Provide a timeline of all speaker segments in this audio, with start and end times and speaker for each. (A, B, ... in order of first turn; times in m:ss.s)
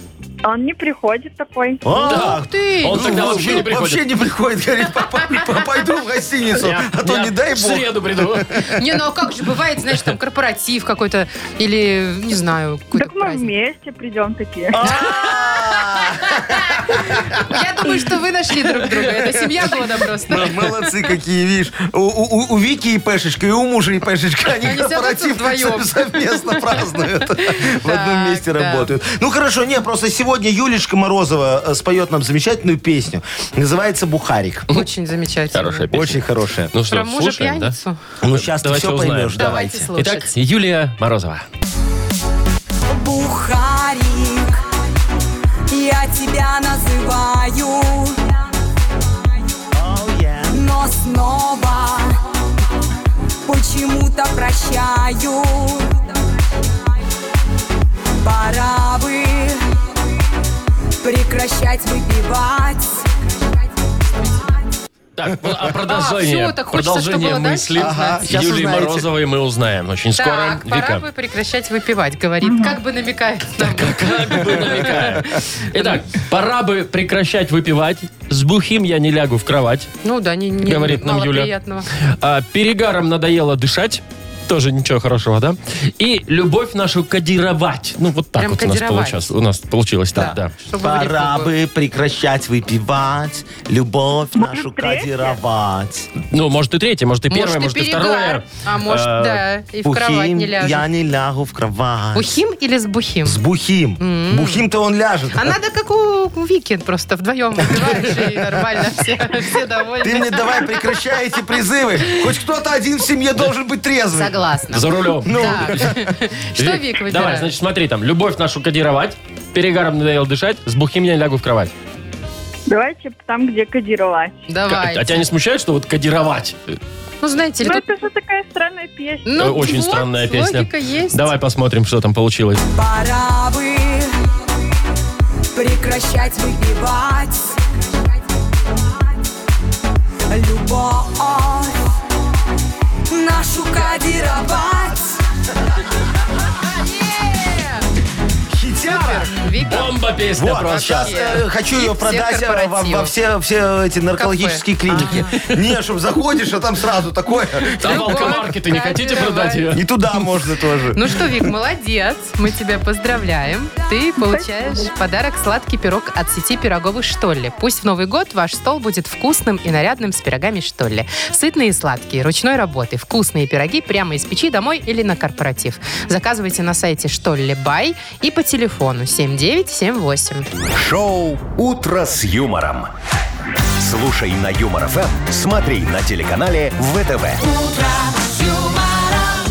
0:00.4-0:01.9 A
0:01.8-0:08.8 B
0:01.9-0:03.7 C
0:02.1-0:04.0 D
0:06.6-0:08.6 D
0:08.7-0:13.5 C
0:13.0-0:14.9 A
0:14.7-0:17.6 B
0:14.8-0:20.9 C
0:18.9-0:34.7 B
0:24.6-0:28.9 C
0:34.7-0:35.9 C
0:35.5-0:41.5 D
0:35.9-0:36.7 B
0:36.9-0:38.0 C
0:38.2-0:39.9 B
0:39.4-0:40.3 C
0:42.9-0:44.7 E
0:45.7-0:48.4 E
0:49.7-0:50.6 B
0:50.5-0:52.2 E
0:53.5-0:56.8 E
0:58.2-0:59.7 E
1:01.0-1:04.7 E
1:05.2-1:11.0 D
1:05.8-1:08.3 C
1:07.8-1:09.1 B
1:10.2-1:16.0 C
1:13.6-1:19.9 D
1:20.0-1:21.9 C
1:20.6-1:30.5 D
1:28.4-1:29.3 C
1:30.2-1:31.5 C
1:30.2-1:36.1 B
1:34.4-1:35.4 A
1:36.3-1:39.4 D
1:37.3-1:40.9 C
1:39.8-1:42.4 B
1:42.2-1:43.4 C
1:43.2-1:45.6 B
1:44.0-1:44.7 C
1:45.3-1:50.9 C
1:47.6-1:48.9 B
1:50.0-1:54.5 B
1:52.0-1:52.3 C
1:54.1-1:57.5 C
1:54.7-1:56.1 D
1:55.2-1:55.9 B
1:56.6-2:01.7 D
2:02.7-2:04.5 A
2:04.5-2:05.3 C
2:04.7-2:06.8 D
2:07.2-2:07.9 C
2:07.6-2:09.4 A
2:09.2-2:11.3 C
2:09.4-2:12.6 D
2:12.7-2:14.2 E
2:15.6-2:18.0 E
2:18.8-2:19.0 E
2:20.3-2:21.8 E
2:23.1-2:25.2 E
2:26.6-2:27.8 C
2:28.5-2:29.4 B
2:28.9-2:29.9 C
2:29.6-2:31.3 D
2:30.4-2:38.4 B
2:30.7-2:33.1 C
2:34.2-2:35.4 C
2:37.6-2:39.7 C
2:37.8-2:39.8 D
2:39.7-2:41.5 B
2:40.9-3:00.5 C
3:00.7-3:02.9 F
3:03.8-3:07.4 F
3:07.4-3:09.4 E